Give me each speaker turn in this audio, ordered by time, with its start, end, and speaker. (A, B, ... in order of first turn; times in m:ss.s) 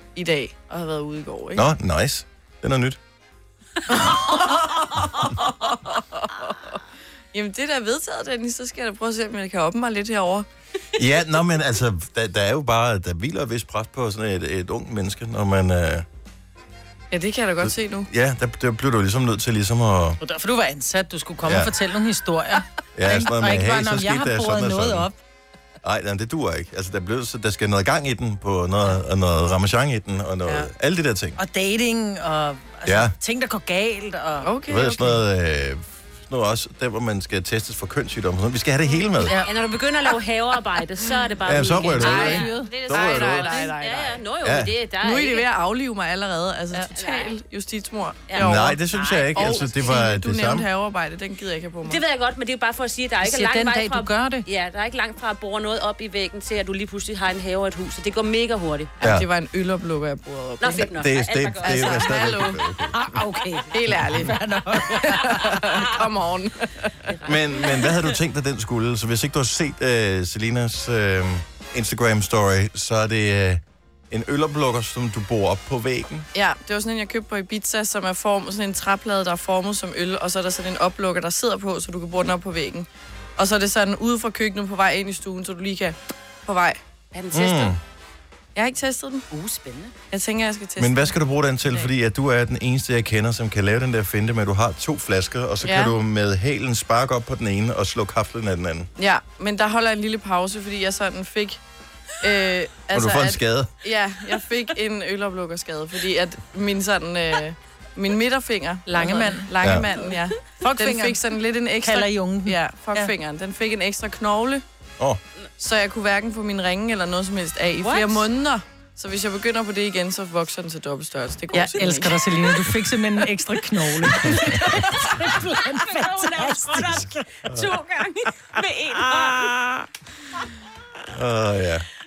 0:00.1-0:01.6 A
0:01.5-0:03.0 B
0:04.0-0:06.5 A
0:07.3-0:10.5 A
0:10.9-0:16.0 B
0:17.1-0:18.1 A
0:17.6-0:20.2 B
0:20.2-0:25.2 C
0:21.4-0:21.7 B
0:22.9-0:25.1 B
0:25.8-0:31.4 B
0:31.4-0:34.5 C
0:32.8-0:33.1 B
0:34.4-0:35.2 A
0:34.7-0:39.4 B
0:39.2-0:39.5 C
0:39.2-0:45.5 D
0:41.4-0:43.5 B
0:42.0-0:44.2 A
0:42.0-0:42.7 C
0:44.4-0:44.7 B
0:45.0-0:48.8 A
0:46.8-0:47.3 D
0:48.3-0:49.8 D
0:48.4-0:50.7 B
0:49.3-0:52.0 A
0:51.8-0:58.9 D
0:53.2-0:54.4 C
0:59.0-1:00.9 A
0:59.0-0:59.3 B
1:00.6-1:02.4 D
1:00.8-1:03.1 B
1:01.6-1:02.6 A
1:02.9-1:05.9 C
1:03.7-1:04.4 A
1:04.9-1:06.8 A
1:07.1-1:08.1 D
1:07.2-1:16.3 B
1:16.3-1:26.8 A
1:27.1-1:27.7 D
1:27.3-1:27.8 B
1:28.5-1:29.2 A
1:29.3-1:29.9 D
1:30.1-1:31.1 A
1:30.8-1:38.9 B
1:35.6-1:35.9 A
1:39.0-1:41.6 A
1:42.2-1:54.6 A
1:42.9-1:43.7 B
1:48.9-1:51.2 C
1:49.6-1:49.9 B
1:51.8-1:53.1 C
1:55.6-2:02.5 A
1:57.8-1:58.3 D
2:01.6-2:07.3 C
2:05.2-2:09.6 D
2:11.1-2:11.9 B